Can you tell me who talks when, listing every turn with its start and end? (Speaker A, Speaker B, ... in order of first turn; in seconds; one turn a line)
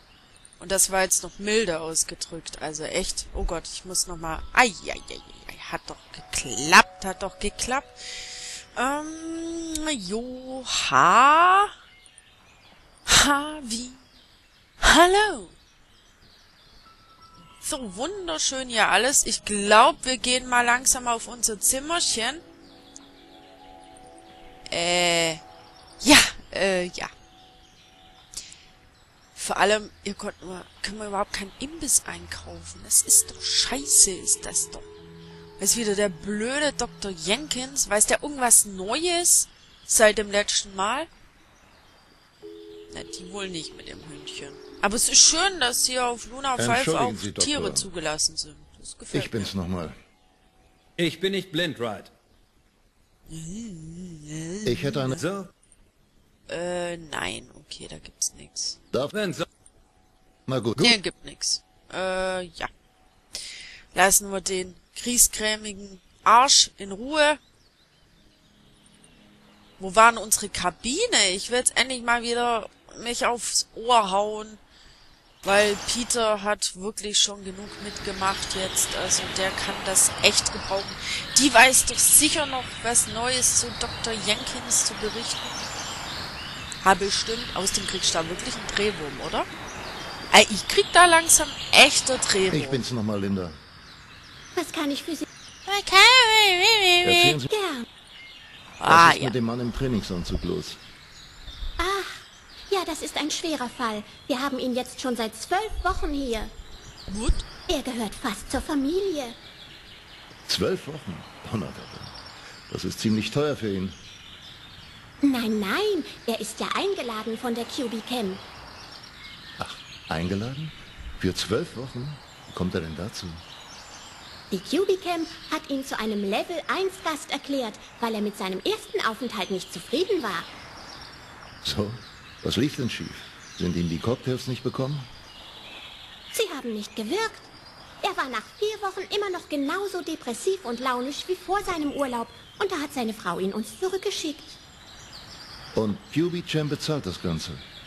Speaker A: 0.6-11.7
Speaker A: 13.1-14.0
Speaker A: 14.8-15.6
Speaker A: 17.6-22.4
Speaker A: 24.7-25.4
Speaker A: 26.0-27.1
Speaker A: 29.4-34.9
Speaker A: 35.6-41.1
Speaker A: 42.9-49.5
Speaker B: 46.6-47.9
Speaker B: 49.1-50.0
Speaker C: 51.0-52.1
Speaker A: 53.3-55.2
Speaker B: 54.7-55.2
Speaker C: 55.2-55.5
Speaker A: 56.5-58.8
Speaker C: 59.1-59.5
Speaker B: 60.5-61.0
Speaker A: 60.8-62.7
Speaker A: 63.4-67.4
Speaker A: 69.8-74.6
Speaker A: 75.4-85.7
Speaker A: 86.8-89.5
Speaker A: 90.3-92.8
Speaker B: 92.5-93.6
Speaker D: 94.5-95.3
Speaker A: 95.7-97.4
Speaker B: 97.0-97.5
Speaker D: 97.5-97.9
Speaker A: 98.8-99.3
Speaker B: 98.9-100.8
Speaker D: 101.8-106.5
Speaker A: 107.1-107.4
Speaker D: 107.7-109.4
Speaker B: 110.5-114.0
Speaker D: 115.2-118.4
Speaker B: 119.6-123.4
Speaker D: 124.5-130.5
Speaker B: 131.6-135.1
Speaker D: 136.3-137.5
Speaker D: 138.0-144.6
Speaker B: 145.8-147.6